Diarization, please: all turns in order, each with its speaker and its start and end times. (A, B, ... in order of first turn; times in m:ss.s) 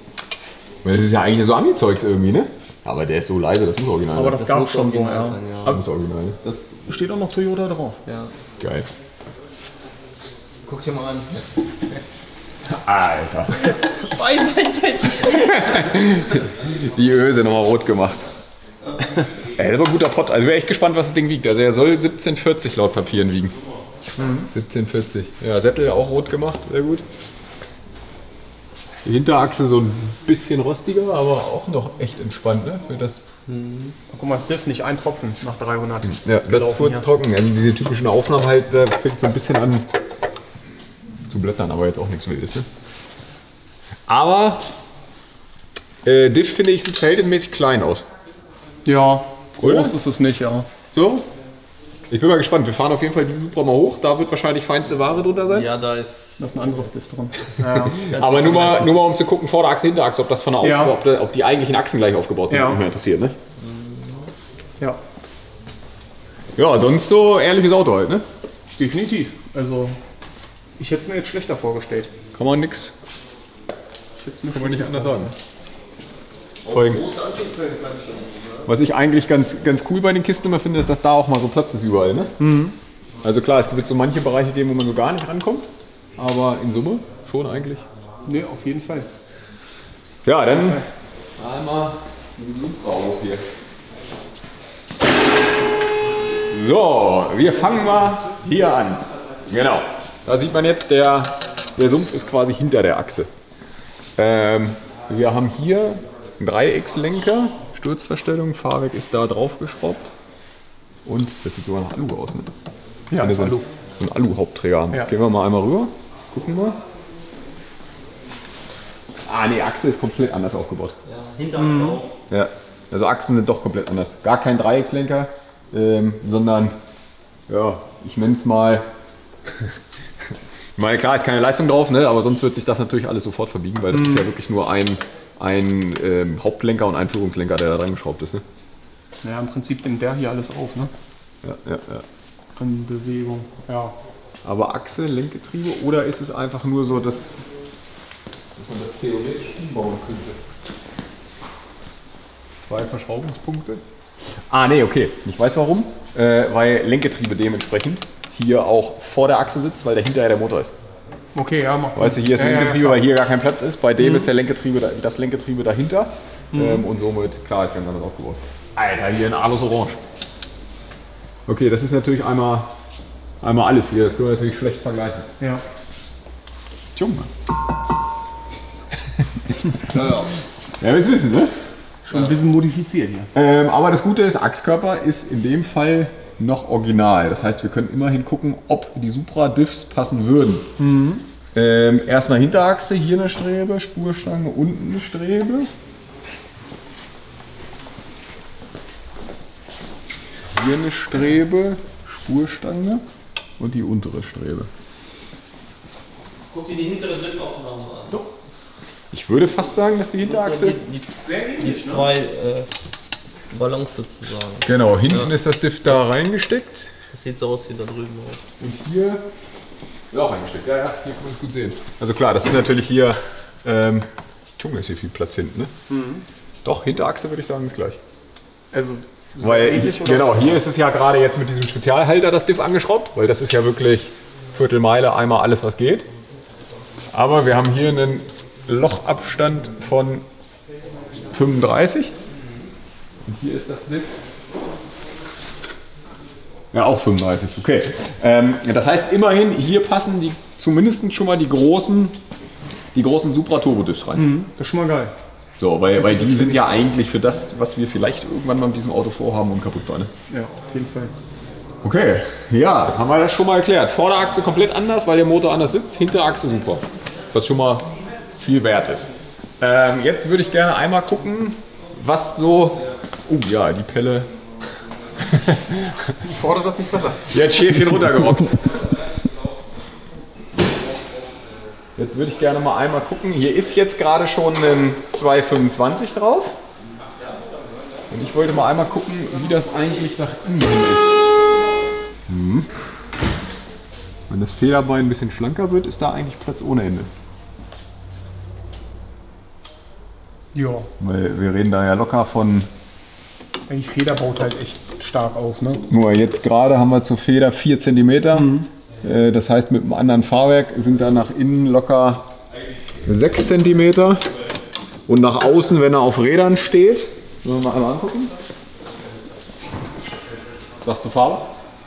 0:00.8-0:04.4 A
0:04.1-0:05.4 B
0:04.3-0:05.8 C
0:05.6-0:06.4 A
0:06.4-0:06.8 C
0:06.8-0:08.0 B
0:08.0-0:08.3 C
0:08.6-0:08.9 A
0:10.6-0:11.4 C
0:12.6-0:13.7 A
0:13.6-0:15.9 C
0:15.4-0:18.3 A
0:19.6-0:23.5 A
0:24.2-0:24.5 B
0:24.5-0:27.0 A
0:29.0-0:33.2 A
0:33.5-0:33.9 C
0:34.1-0:37.1 B
0:36.1-0:39.9 A
0:41.3-0:42.7 A
0:44.1-0:44.7 A
0:46.0-0:48.0 A
0:48.8-0:50.7 B
0:49.6-0:49.9 A
0:50.9-0:51.2 A
0:52.1-0:55.7 A
0:55.5-0:56.7 C
0:56.4-0:59.0 B
0:58.0-1:03.4 A
1:00.6-1:01.0 B
1:02.5-1:02.8 B
1:03.6-1:04.3 C
1:06.6-1:08.2 A
1:08.8-1:10.0 B
1:10.8-1:12.1 B
1:12.3-1:12.9 A
1:14.2-1:15.3 B
1:14.5-1:15.3 A
1:16.6-1:18.7 C
1:16.7-1:17.0 A
1:18.7-1:22.3 A
1:22.4-1:22.8 B
1:23.2-1:27.8 A
1:28.2-1:29.1 B
1:30.2-1:30.8 A
1:30.5-1:30.8 B
1:31.4-1:33.4 A
1:36.5-1:43.3 A
1:44.2-1:50.1 A
1:51.0-1:52.5 A
1:53.1-1:53.7 B
1:53.1-1:56.8 A
1:59.2-2:01.0 A
2:01.0-2:02.1 C
2:01.6-2:02.0 B
2:02.3-2:06.8 A
2:07.5-2:08.9 A
2:09.5-2:09.7 A
2:10.3-2:18.4 A
2:13.9-2:14.2 B
2:19.2-2:20.9 B
2:21.4-2:22.0 A
2:22.6-2:23.9 B
2:24.4-2:27.3 A
2:28.6-2:30.4 A
2:32.6-2:40.7 A
2:41.3-2:43.0 B
2:41.9-2:50.0 A
2:44.0-2:44.3 B
2:46.5-2:46.8 B
2:51.5-2:52.7 A
2:53.4-2:55.3 A
2:56.9-2:57.3 A
2:59.9-3:00.3 C
3:00.8-3:01.5 A
3:02.1-3:03.3 B
3:03.3-3:10.7 A
3:10.8-3:11.2 B
3:11.5-3:15.7 A
3:20.5-3:23.0 A
3:23.6-3:24.7 A
3:26.5-3:28.2 C
3:29.1-3:30.8 A
3:30.2-3:32.7 C
3:31.2-3:32.1 B
3:33.5-3:35.3 C
3:34.6-3:36.9 A
3:37.1-3:38.4 C
3:38.6-3:39.2 A
3:40.1-3:44.1 A
3:44.6-3:45.7 A
3:45.9-3:46.2 B
3:46.6-3:48.0 A
3:48.7-3:50.5 B
3:49.4-3:56.1 A
3:57.1-4:00.2 A
4:01.3-4:02.1 A
4:03.2-4:04.1 A
4:06.7-4:12.2 A
4:12.9-4:14.4 A
4:14.1-4:15.1 B
4:15.6-4:20.1 A
4:16.0-4:16.6 B
4:20.3-4:21.1 B
4:21.8-4:34.3 A
4:35.2-4:36.1 A
4:36.2-4:37.3 B
4:37.3-4:38.8 A
4:42.0-4:46.6 A
4:48.1-4:51.2 A
4:52.3-4:52.7 A
4:54.3-4:57.1 A
5:00.5-5:00.9 B
5:01.0-5:02.7 A
5:03.7-5:05.8 B
5:05.9-5:12.3 A
5:08.3-5:08.7 B
5:13.0-5:14.3 A
5:15.1-5:18.4 A
5:20.8-5:21.5 A